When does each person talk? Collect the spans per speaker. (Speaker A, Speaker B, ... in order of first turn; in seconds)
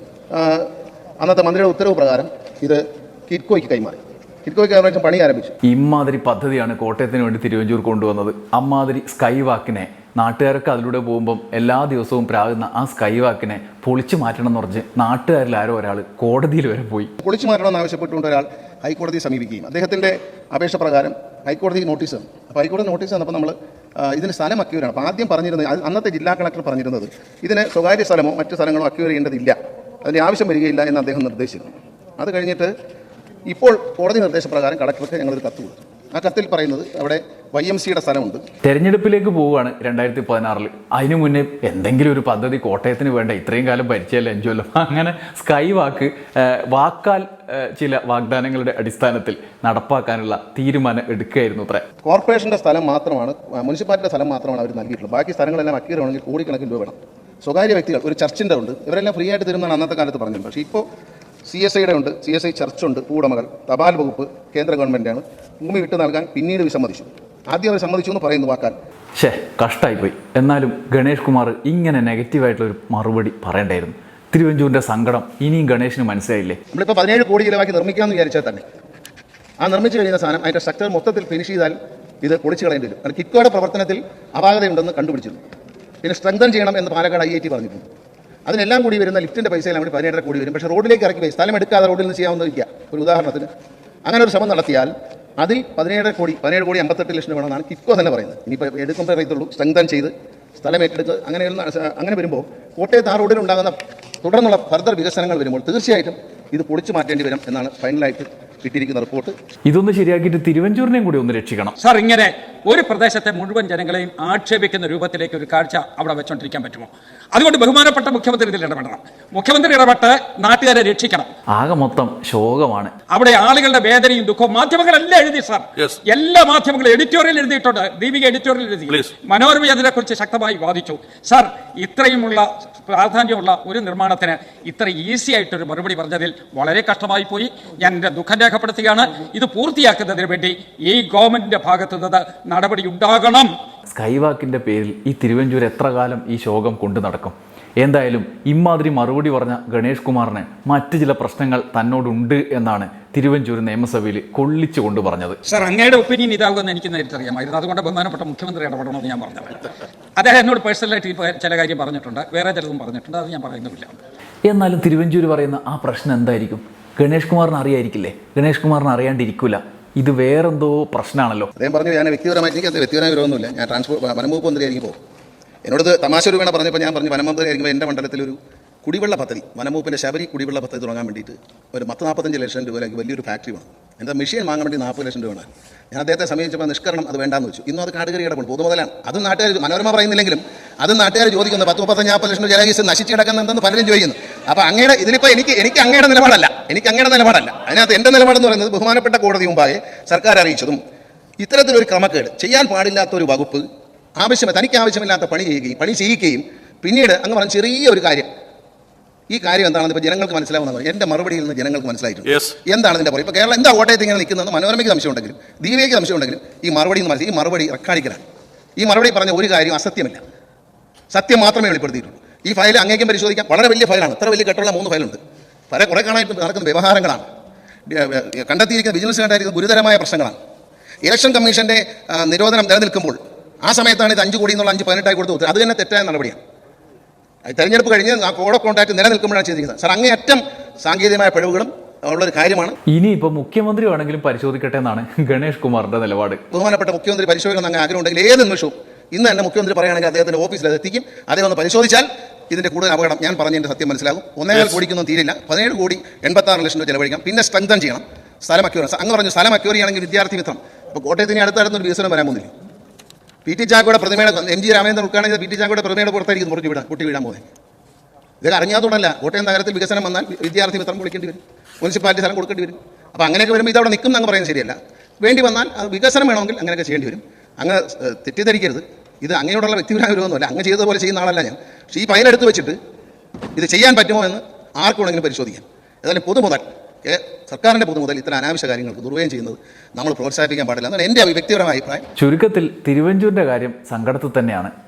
Speaker A: 0.3-5.5, 17.2-32.7, 33.5-38.4, 52.0-60.8, 61.5-68.8, 76.7-78.6, 79.6-85.4, 86.0-87.8, 88.5-93.5, 94.0-109.3, 171.6-174.9, 175.6-200.8, 201.4-203.7, 204.2-208.3, 209.3-218.2, 218.8-220.2, 221.1-225.2, 225.7-227.2, 227.9-230.4, 231.0-236.4, 237.4-242.8, 246.5-262.5, 263.4-267.5, 268.4-282.8, 283.5-292.0
Speaker B: 5.6-17.1, 38.6-51.8, 69.2-76.6, 109.7-111.8, 121.5-122.9, 143.9-155.4, 164.5-171.5, 242.9-246.4, 292.2-294.7
Speaker C: 111.8-121.3, 123.1-143.5, 155.4-163.9